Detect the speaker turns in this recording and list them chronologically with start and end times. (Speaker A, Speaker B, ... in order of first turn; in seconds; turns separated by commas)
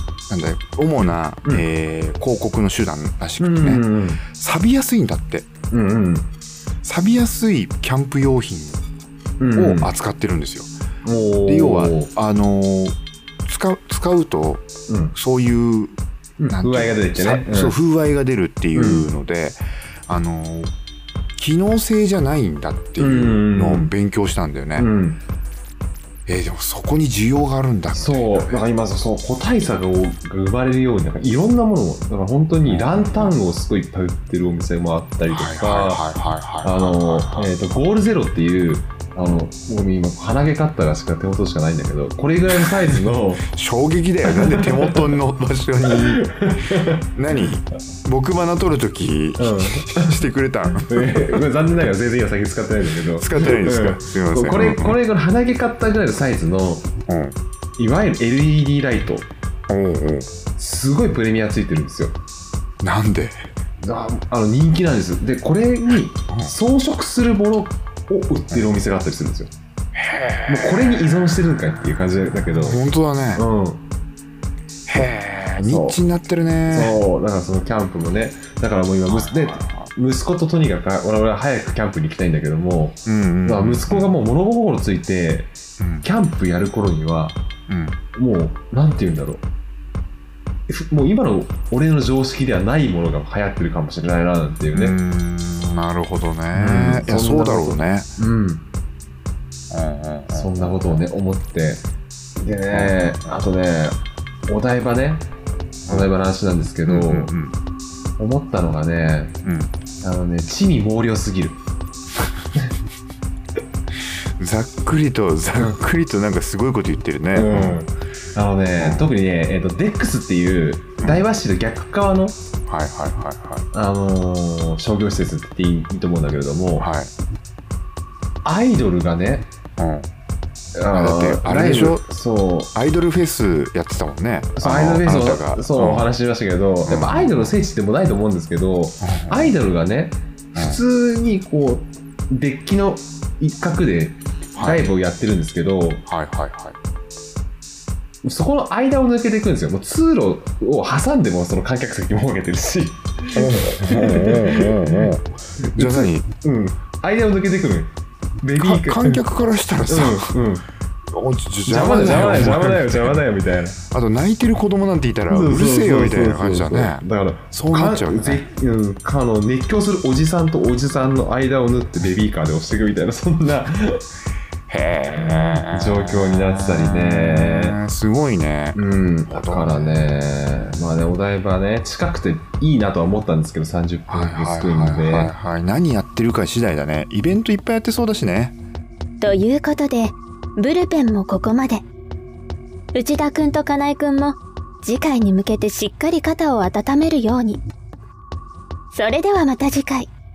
Speaker A: 0.3-5.5, Speaker B: 3.4-4.2, Speaker B: 5.7-6.3, Speaker A: 6.8-8.8, Speaker B: 9.4-9.9, Speaker A: 9.5-10.7, Speaker B: 11.0-12.1, Speaker A: 11.4-16.0, Speaker B: 14.9-15.1, Speaker B: 16.4-17.8, Speaker A: 16.5-20.7, Speaker B: 18.7-19.1, Speaker A: 21.4-24.9, Speaker B: 23.0-23.9, Speaker B: 24.8-25.2, Speaker A: 26.2-28.7, Speaker B: 27.9-36.0, Speaker A: 32.6-33.4, Speaker A: 35.3-37.6, Speaker B: 36.6-43.5, Speaker A: 42.5-46.5, Speaker B: 44.2-45.1, Speaker B: 45.9-47.1, Speaker A: 47.1-51.4, Speaker B: 49.4-50.3, Speaker B: 50.8-56.9, Speaker A: 53.1-55.0, Speaker A: 57.1-57.4, Speaker B: 57.8-59.3, Speaker A: 59.7-60.3, Speaker B: 60.5-62.1, Speaker A: 62.8-63.5, Speaker B: 63.8-69.5, Speaker A: 69.9-71.4, Speaker B: 70.5-72.8, Speaker A: 72.5-73.4, Speaker B: 73.3-73.8, Speaker A: 74.9-77.0, Speaker B: 75.6-76.0, Speaker B: 76.7-85.5, Speaker A: 79.1-79.9, Speaker A: 83.0-84.1, Speaker A: 85.8-86.1, Speaker B: 86.0-87.4, Speaker A: 87.7-88.0, Speaker B: 88.1-89.4, Speaker B: 90.7-95.0, Speaker A: 94.7-98.1, Speaker B: 96.5-98.6, Speaker A: 99.7-101.0, Speaker B: 100.3-101.8, Speaker B: 102.4-105.2, Speaker A: 102.7-103.4, Speaker A: 105.8-106.1, Speaker B: 105.9-107.3, Speaker A: 106.8-107.5, Speaker B: 108.2-109.3, Speaker A: 109.4-109.7, Speaker B: 110.0-111.6, Speaker A: 114.4-117.8, Speaker B: 117.3-122.4, Speaker A: 118.7-119.1, Speaker A: 122.7-123.7, Speaker B: 123.7-126.9, Speaker A: 126.8-127.1, Speaker B: 128.4-129.5, Speaker A: 129.8-130.1, Speaker B: 130.7-132.7, Speaker A: 130.9-132.1, Speaker A: 132.7-136.1, Speaker B: 134.5-146.1, Speaker A: 136.8-137.5, Speaker A: 139.0-139.6, Speaker A: 140.5-140.8, Speaker A: 144.6-144.9, Speaker A: 146.1-146.8, Speaker B: 148.2-159.2, Speaker A: 153.3-156.3, Speaker A: 158.6-160.3, Speaker B: 159.9-160.7, Speaker A: 161.1-163.2, Speaker B: 161.6-163.8, Speaker A: 163.9-168.4, Speaker B: 165.3-174.0, Speaker A: 174.7-180.0, Speaker B: 175.1-177.8, Speaker B: 178.7-185.3, Speaker A: 184.1-188.6, Speaker C: 189.2-191.8, Speaker C: 192.9-197.6, Speaker C: 198.9-200.1